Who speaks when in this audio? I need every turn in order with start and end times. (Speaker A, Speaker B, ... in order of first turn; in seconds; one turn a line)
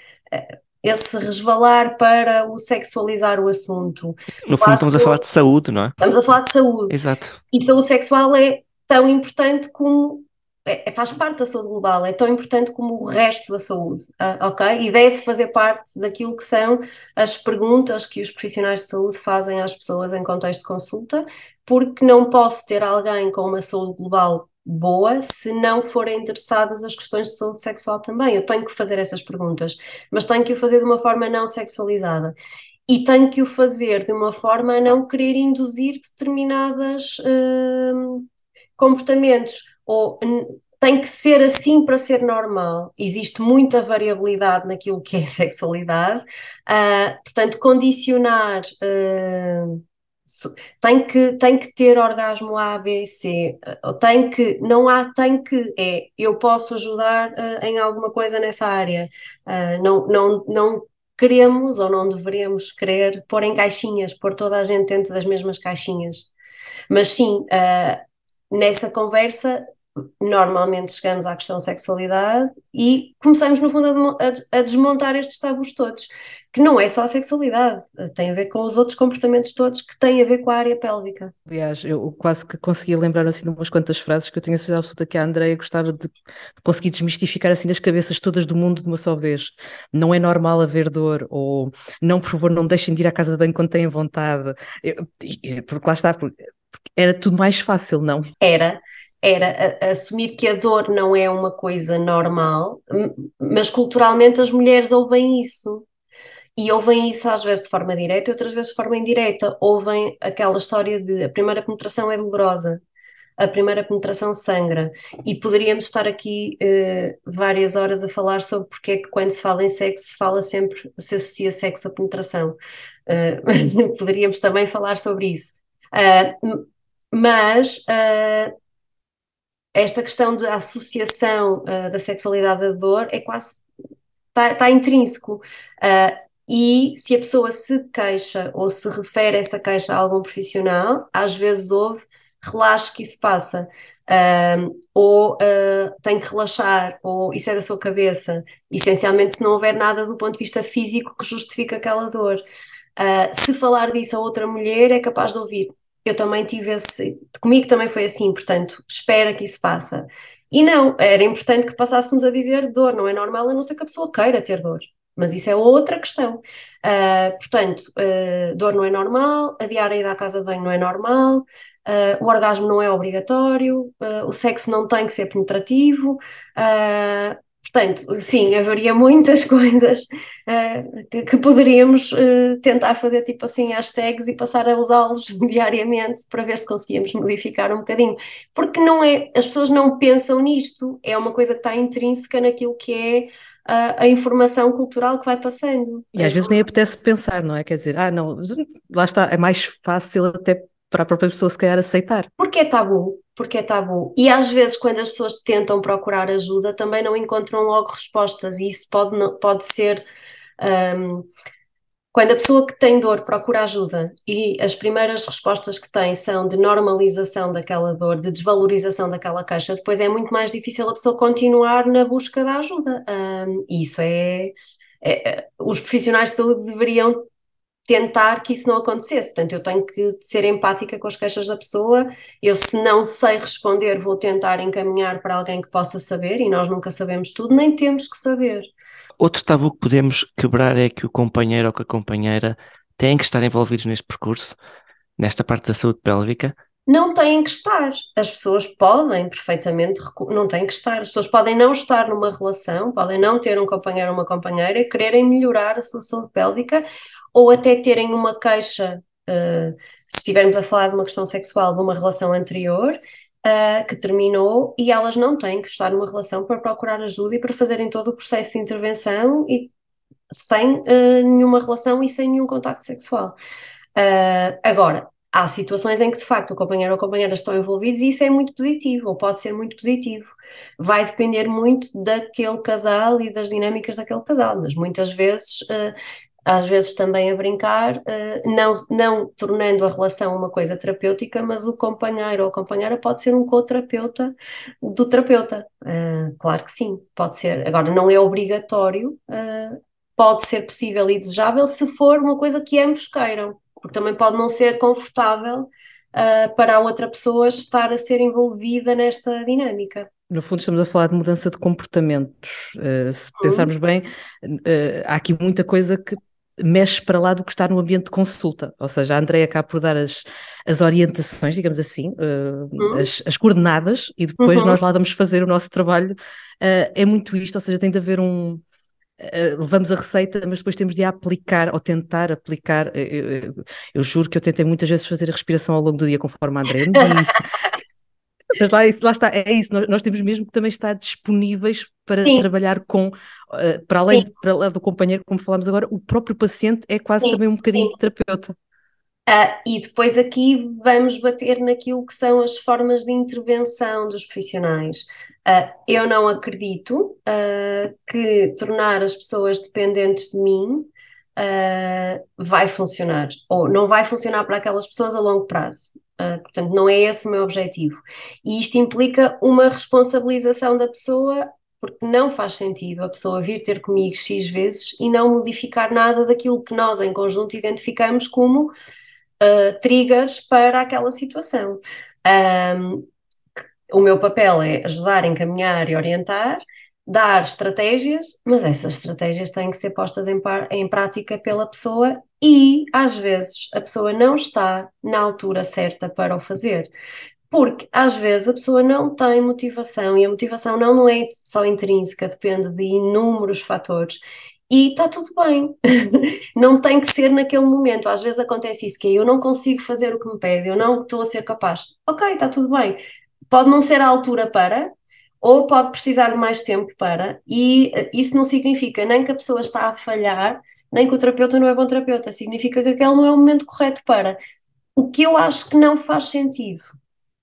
Speaker A: 0.3-5.2
Speaker B: 4.5-6.0
Speaker A: 6.0-6.9
Speaker B: 6.9-7.4
Speaker A: 7.5-32.3
Speaker A: 32.9-38.2
Speaker A: 38.8-66.3
Speaker A: 66.9-69.6
Speaker A: 70.2-81.3
Speaker C: 81.5-96.3
Speaker C: 97.0-98.3
Speaker A: 98.4-105.8
Speaker A: 106.5-112.8
Speaker A: 113.4-128.5
Speaker A: 129.7-133.6
Speaker A: 134.3-152.4
Speaker A: 153.0-196.6
Speaker C: 196.2-202.3
Speaker A: 202.4-210.0
Speaker A: 210.6-211.3
Speaker A: 212.1-227.2
Speaker A: 227.9-238.7
Speaker B: 239.2-244.6
Speaker B: 245.2-246.5
Speaker A: 246.9-269.7
Speaker A: 270.3-273.4
Speaker A: 273.9-285.9
Speaker A: 286.4-310.1
Speaker C: 310.3-328.6
Speaker A: 313.4-313.7
Speaker A: 322.8-323.1
Speaker A: 324.4-324.8
Speaker C: 329.2-337.4
Speaker A: 337.0-337.4
Speaker C: 338.5-348.5
Speaker A: 347.2-347.9
Speaker A: 349.3-378.7
Speaker A: 379.4-383.1
Speaker A: 383.9-396.9
Speaker A: 397.5-413.0
Speaker A: 413.5-424.4
Speaker A: 424.9-426.9